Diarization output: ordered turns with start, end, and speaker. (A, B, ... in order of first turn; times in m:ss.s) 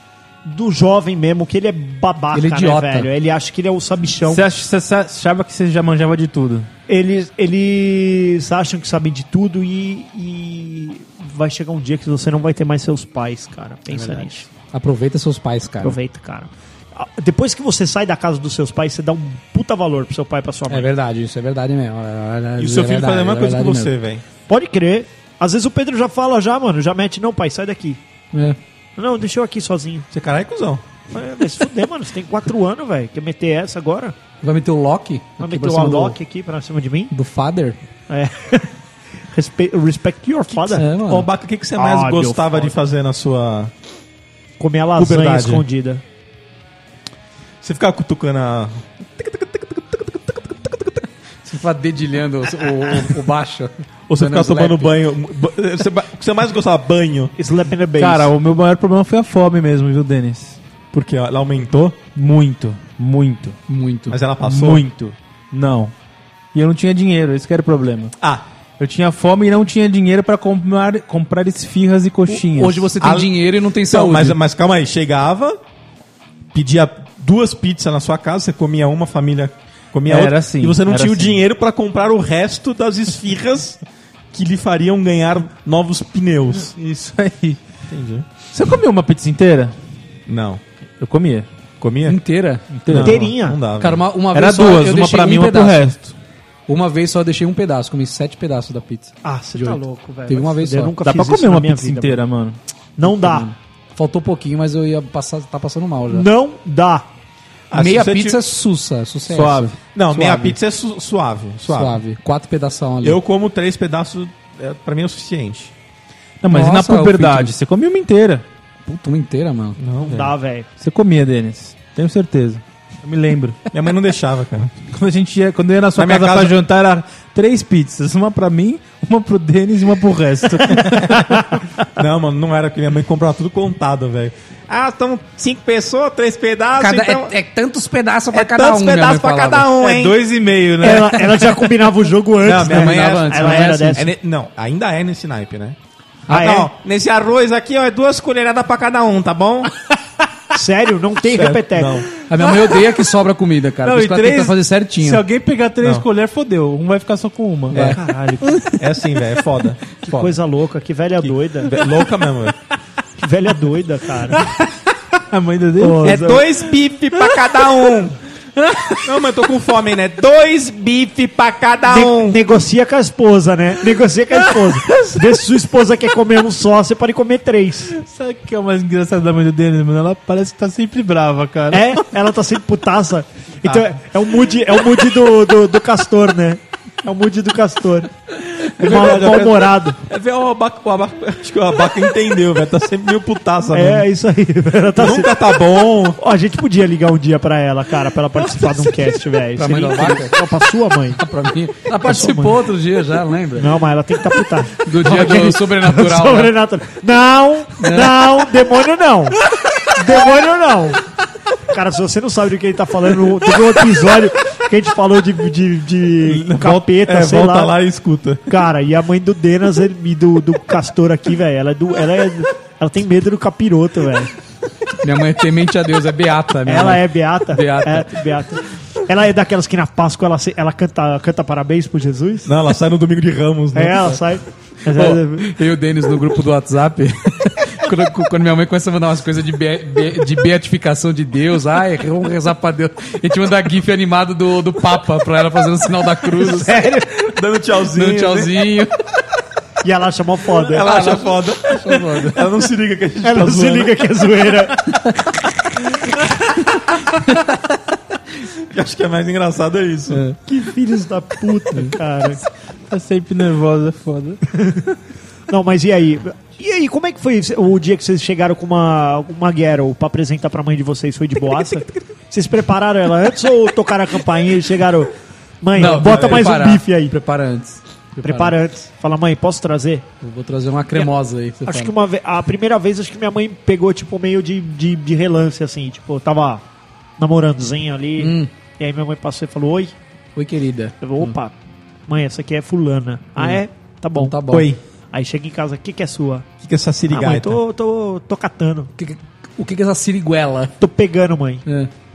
0:00.4-0:04.5 A
0:02.3-0:03.1 B
0:04.2-0:06.7 C
0:06.9-0:14.5 A
0:13.9-0:16.0 B
0:15.8-0:20.9 A
0:20.7-0:23.9 B
0:22.6-0:24.2 D
0:24.5-0:28.0 A
0:29.0-0:30.1 A
0:30.1-0:30.8 D
0:31.1-0:34.2 A
0:34.4-0:36.2 B
0:35.4-0:37.1 A
0:37.1-0:37.8 B
0:38.1-0:38.7 A
0:39.3-0:40.9 A
0:40.7-0:41.3 B
0:40.9-0:43.7 D
0:41.8-0:42.8 A
0:44.6-0:46.0 A
0:45.0-0:45.6 D
0:47.6-0:51.0 D
0:51.4-0:54.9 B
0:54.1-0:57.3 D
0:57.4-0:58.3 A
0:58.0-1:00.6 C
1:00.9-1:02.0 D
1:02.2-1:03.6 C
1:03.7-1:04.2 B
1:04.1-1:04.8 D
1:04.4-1:05.9 C
1:06.5-1:08.1 C
1:08.8-1:12.9 C
1:12.3-1:14.4 B
1:13.0-1:15.6 D
1:16.5-1:23.8 D
1:20.0-1:21.3 C
1:24.3-1:26.8 D
1:26.6-1:27.6 C
1:27.9-1:28.3 D
1:28.4-1:29.8 C
1:30.3-1:30.6 D
1:31.0-1:31.5 C
1:31.8-1:32.2 D
1:32.1-1:32.6 B
1:32.7-1:33.2 C
1:32.9-1:34.0 D
1:33.0-1:33.6 A
1:33.8-1:35.9 B
1:34.3-1:36.1 C
1:36.7-1:40.9 B
1:39.2-1:42.2 A
1:41.0-1:42.6 C
1:43.0-1:43.5 A
1:43.2-1:46.3 B
1:46.1-1:47.1 A
1:47.7-1:48.4 D
1:47.7-1:49.8 B
1:49.3-1:50.6 C
1:50.0-1:52.0 D
1:51.7-1:53.2 B
1:53.0-1:55.7 D
1:56.4-1:58.4 C
1:56.5-1:57.5 B
1:58.9-1:59.8 B
1:59.8-2:00.3 D
2:00.0-2:00.7 A
2:00.8-2:03.6 C
2:03.7-2:04.7 D
2:04.9-2:11.4 C
2:06.0-2:06.6 D
2:12.0-2:17.4 D
2:16.8-2:19.7 B
2:18.3-2:20.2 D
2:19.8-2:21.7 C
2:20.8-2:24.1 A
2:22.4-2:29.7 D
2:22.6-2:24.1 B
2:26.3-2:26.7 A
2:30.5-2:32.0 A
2:31.2-2:32.1 D
2:32.3-2:35.2 B
2:32.4-2:32.9 C
2:33.8-2:38.0 C
2:37.7-2:38.0 B
2:37.7-2:38.7 A
2:38.7-2:40.3 D
2:40.0-2:41.8 A
2:41.6-2:42.6 D
2:43.2-2:44.4 A
2:44.3-2:46.4 C
2:45.8-2:46.5 A
2:46.0-2:48.2 D
2:48.6-2:49.1 C
2:49.0-2:52.4 D
2:51.9-2:57.9 A
2:54.5-2:55.3 C
2:57.9-3:02.0 C
3:01.7-3:08.1 A
3:03.6-3:03.9 D
3:08.8-3:10.0 A
3:08.8-3:14.1 D
3:13.7-3:15.3 A
3:15.0-3:16.2 D
3:16.2-3:21.2 A
3:19.6-3:20.4 B
3:21.2-3:23.8 B
3:21.9-3:22.6 A
3:23.6-3:29.4 A
3:24.8-3:26.6 B
3:27.8-3:28.5 B
3:29.9-3:31.0 A
3:31.7-3:37.8 A
3:36.2-3:38.5 D
3:38.5-3:44.3 A
3:45.0-3:48.1 B
3:46.7-3:52.5 A
3:52.5-3:54.2 D
3:53.7-3:55.5 A
3:54.9-4:06.7 B
4:06.4-4:07.2 A
4:07.2-4:08.7 D
4:07.9-4:08.9 B
4:09.8-4:10.9 A
4:10.5-4:14.0 D
4:10.8-4:12.4 B
4:13.2-4:15.0 A
4:18.7-4:20.2 D
4:20.1-4:20.4 B
4:20.5-4:22.4 A
4:22.9-4:24.4 C
4:24.6-4:24.9 A
4:25.5-4:37.2 A
4:31.4-4:32.1 D
4:35.8-4:36.6 D
4:35.8-4:38.6 B
4:38.2-4:40.1 A
4:40.2-4:41.9 B
4:41.7-4:46.6 A
4:47.2-4:49.9 A
4:48.2-4:48.5 B
4:50.4-4:51.4 B
4:51.0-4:51.5 A
4:52.1-4:56.5 A
4:53.4-4:53.6 B
4:54.2-4:54.7 B
4:56.6-4:57.6 D
4:57.1-4:58.9 A
4:59.0-5:00.7 B
5:00.8-5:01.6 A
5:01.7-5:01.9 B